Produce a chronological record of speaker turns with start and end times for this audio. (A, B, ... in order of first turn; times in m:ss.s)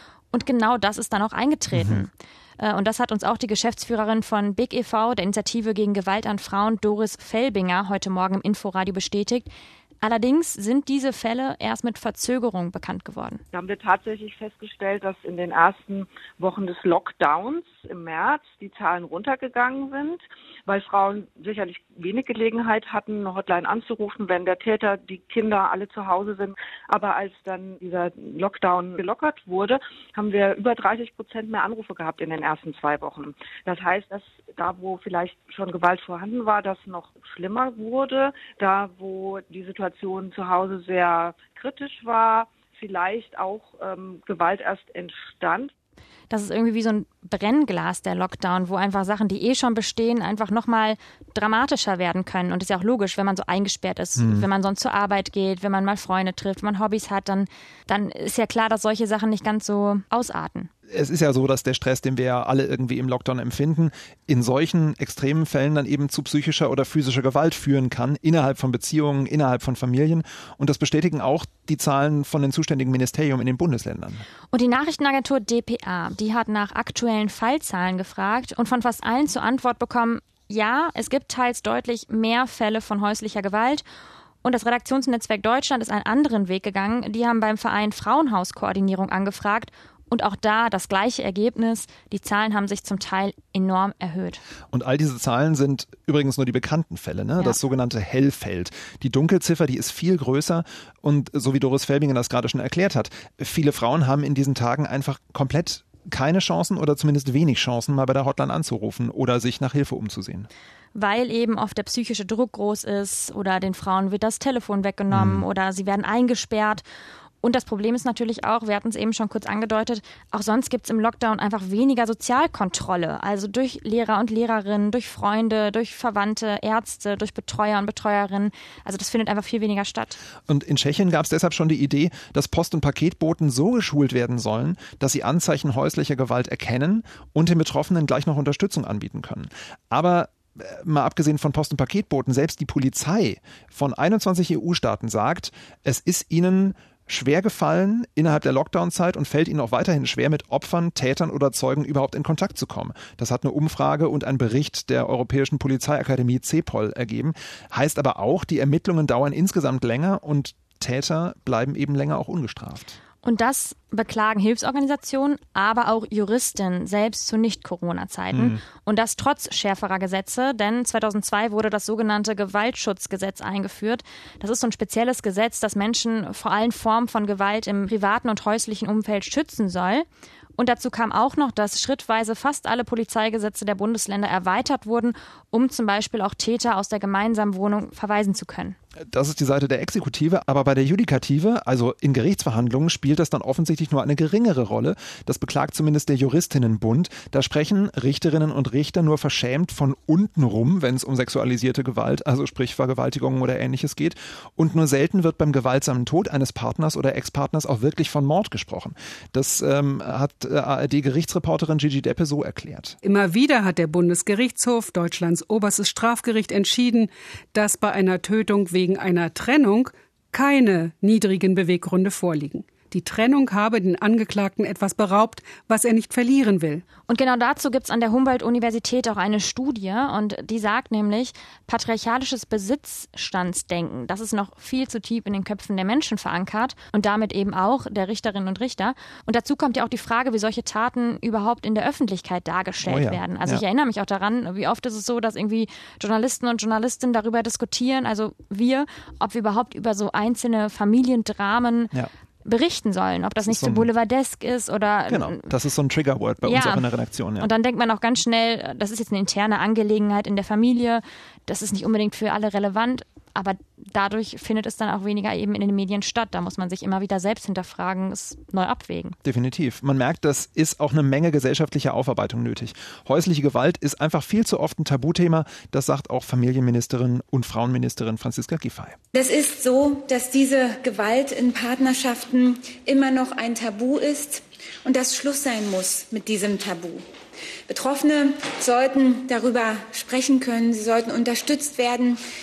0:00.3-0:13.4 A
0:01.7-0:02.0 B
0:13.5-0:45.7 C
0:46.3-1:00.7 A
0:54.2-0:54.5 B
1:00.9-1:14.2 B
1:14.5-1:23.8 A
1:24.4-1:34.4 A
1:34.7-1:50.5 B
1:50.9-1:56.8 A
1:55.1-1:55.5 B
1:57.4-2:10.2 A
2:10.5-2:43.0 B
2:43.2-3:00.1 A
2:48.3-2:48.6 B
3:00.6-3:08.8 A
3:09.1-3:33.0 B
3:33.0-3:46.8 D
3:47.1-4:15.5 A
4:02.8-4:03.6 B
4:13.5-4:13.9 B
4:15.1-4:17.5 B
4:16.4-4:29.2 A
4:29.2-4:39.0 B
4:39.1-4:47.0 E
4:47.7-4:52.2 E